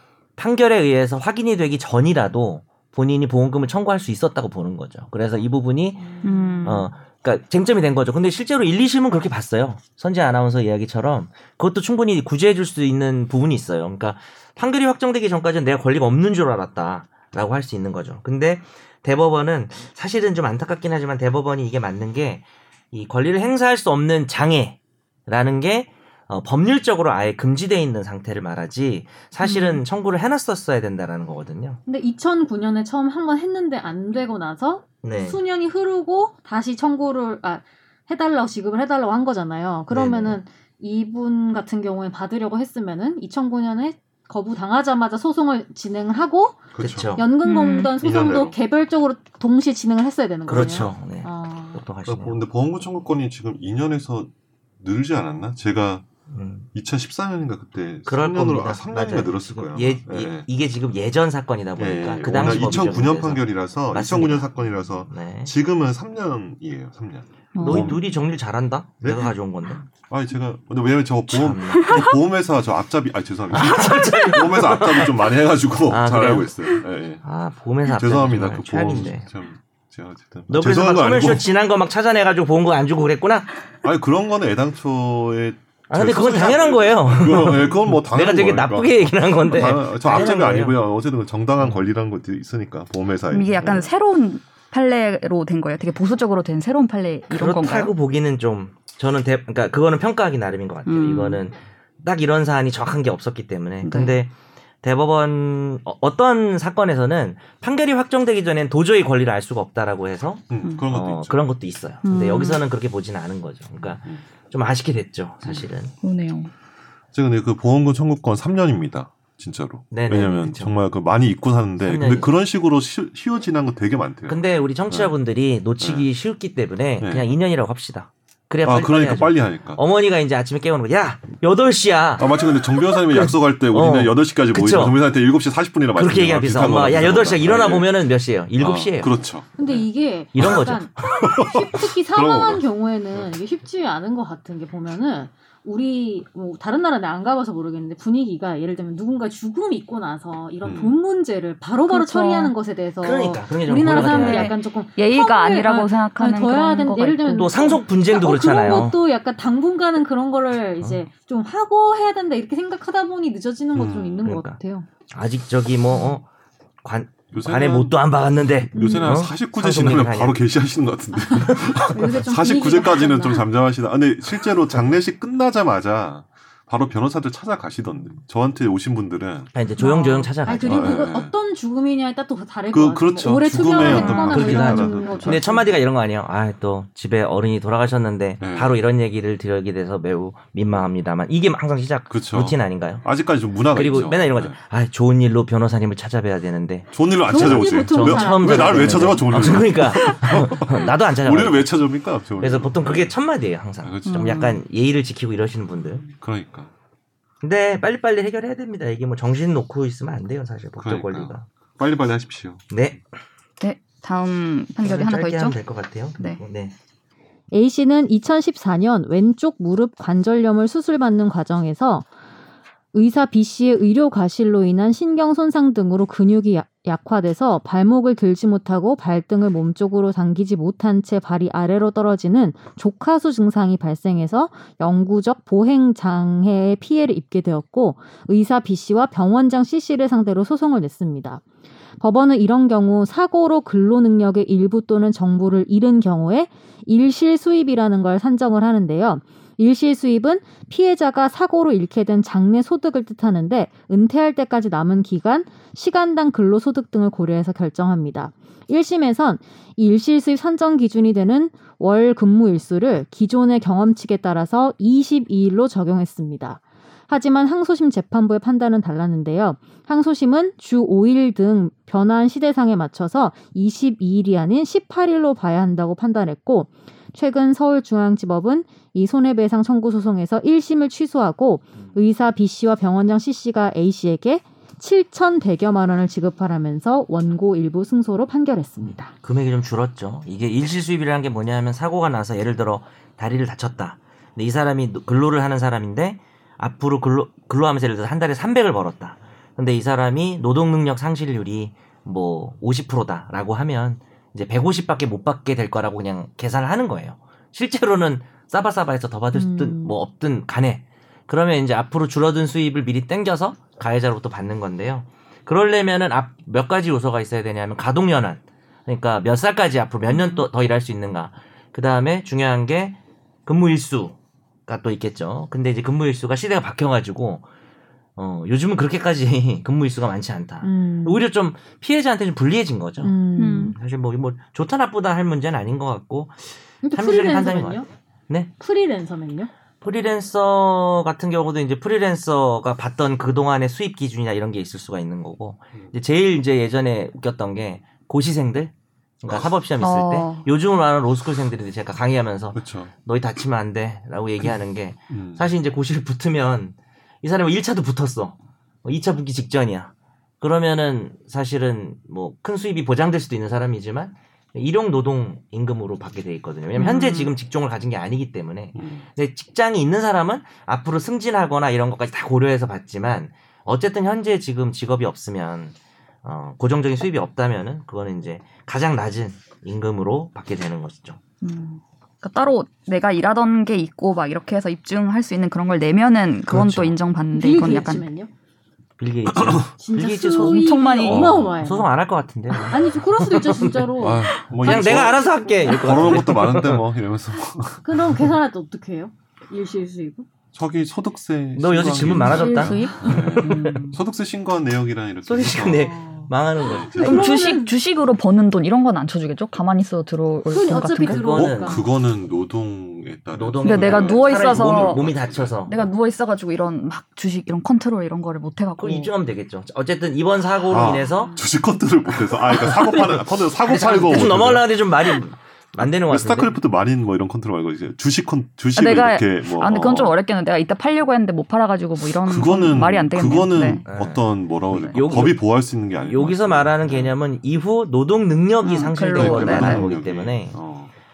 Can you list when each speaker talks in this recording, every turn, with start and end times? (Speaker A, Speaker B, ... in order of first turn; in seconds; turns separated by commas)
Speaker A: 0.4-31.8, Speaker B: 6.1-6.7, Speaker C: 6.2-6.9, Speaker B: 31.9-51.8, Speaker A: 35.0-35.4, Speaker A: 39.9-40.4, Speaker D: 46.7-47.1, Speaker A: 46.8-47.3, Speaker C: 47.4-47.9, Speaker D: 48.0-48.6, Speaker A: 50.5-52.4, Speaker D: 50.5-50.9, Speaker D: 52.0-56.0, Speaker A: 56.3-56.7, Speaker D: 56.7-60.5, Speaker A: 58.0-64.5, Speaker D: 61.8-68.0, Speaker A: 65.1-65.5, Speaker C: 67.5-68.0, Speaker A: 67.6-69.9, Speaker D: 69.0-69.3, Speaker D: 69.9-77.2, Speaker A: 71.3-72.1, Speaker C: 71.7-72.1, Speaker A: 73.5-75.3, Speaker A: 75.9-76.6, Speaker A: 77.2-79.3, Speaker D: 77.9-81.5, Speaker A: 80.5-83.5, Speaker D: 83.8-93.9, Speaker A: 85.9-90.8, Speaker A: 91.6-91.8, Speaker C: 93.3-97.9, Speaker A: 97.3-115.9, Speaker C: 100.8-101.4, Speaker C: 103.8-104.2, Speaker D: 110.5-111.4, Speaker C: 112.0-112.6, Speaker C: 116.0-116.5, Speaker D: 117.1-125.1, Speaker A: 119.9-120.7, Speaker A: 121.8-122.3, Speaker A: 124.3-135.0, Speaker D: 125.8-126.1, Speaker D: 127.0-127.2, Speaker D: 128.6-129.8, Speaker D: 132.2-137.9, Speaker A: 135.9-139.1, Speaker D: 138.6-139.7, Speaker B: 139.6-164.9, Speaker A: 140.3-140.9, Speaker D: 140.4-142.6, Speaker D: 150.6-151.0, Speaker C: 151.9-152.5, Speaker A: 153.0-154.5, Speaker C: 153.9-157.5, Speaker A: 157.3-159.0, Speaker D: 163.7-164.2, Speaker A: 164.2-166.2, Speaker A: 166.8-170.4, Speaker D: 167.3-168.0, Speaker D: 168.7-179.5, Speaker B: 168.7-169.1, Speaker B: 171.3-173.4, Speaker A: 171.4-172.1, Speaker A: 179.5-181.0, Speaker B: 179.8-185.7, Speaker D: 180.6-181.3, Speaker D: 182.7-185.7, Speaker C: 183.7-184.4, Speaker A: 183.8-193.0, Speaker D: 188.4-188.8, Speaker D: 192.1-194.6, Speaker A: 193.7-201.7, Speaker D: 196.9-203.1, Speaker B: 197.3-199.6, Speaker A: 202.4-206.1, Speaker D: 203.8-204.5, Speaker C: 204.1-204.6, Speaker D: 206.1-206.7, Speaker A: 207.4-211.4, Speaker D: 210.8-212.6, Speaker A: 212.7-213.0, Speaker C: 213.6-215.6, Speaker A: 214.8-216.7, Speaker B: 217.5-222.1, Speaker B: 222.9-241.4, Speaker B: 242.0-289.1, Speaker A: 289.2-327.4, Speaker B: 309.3-309.9, Speaker A: 328.2-338.5, Speaker B: 330.6-331.2, Speaker B: 333.0-333.7, Speaker C: 333.4-333.7, Speaker B: 336.8-337.9, Speaker B: 338.6-339.5, Speaker A: 339.8-381.2, Speaker C: 349.8-350.5, Speaker D: 352.5-352.9, Speaker D: 355.1-355.5, Speaker C: 366.7-367.3, Speaker D: 368.8-369.0, Speaker C: 381.4-388.0, Speaker A: 386.5-386.9, Speaker B: 387.3-388.3, Speaker A: 389.0-396.8, Speaker D: 389.3-389.7, Speaker B: 389.8-391.9, Speaker C: 390.4-391.4, Speaker D: 391.1-391.6, Speaker B: 392.7-396.3, Speaker D: 394.0-398.3, Speaker B: 397.8-400.3, Speaker D: 400.5-405.9, Speaker A: 401.6-403.8, Speaker C: 402.2-404.0, Speaker B: 402.4-403.0, Speaker A: 405.2-407.5, Speaker B: 405.7-406.3, Speaker D: 406.6-407.3, Speaker B: 406.9-407.7, Speaker C: 407.0-411.2, Speaker B: 410.5-411.9, Speaker A: 411.0-411.8, Speaker D: 411.3-415.5, Speaker A: 413.3-415.9, Speaker C: 413.6-415.1, Speaker C: 415.6-419.1, Speaker A: 418.8-421.4, Speaker D: 420.7-424.7, Speaker B: 421.0-421.5, Speaker A: 422.5-426.6, Speaker D: 426.0-430.1, Speaker C: 428.8-433.8, Speaker D: 432.2-437.2, Speaker A: 433.9-435.4, Speaker A: 436.0-440.6, Speaker C: 438.6-439.9, Speaker D: 439.1-440.9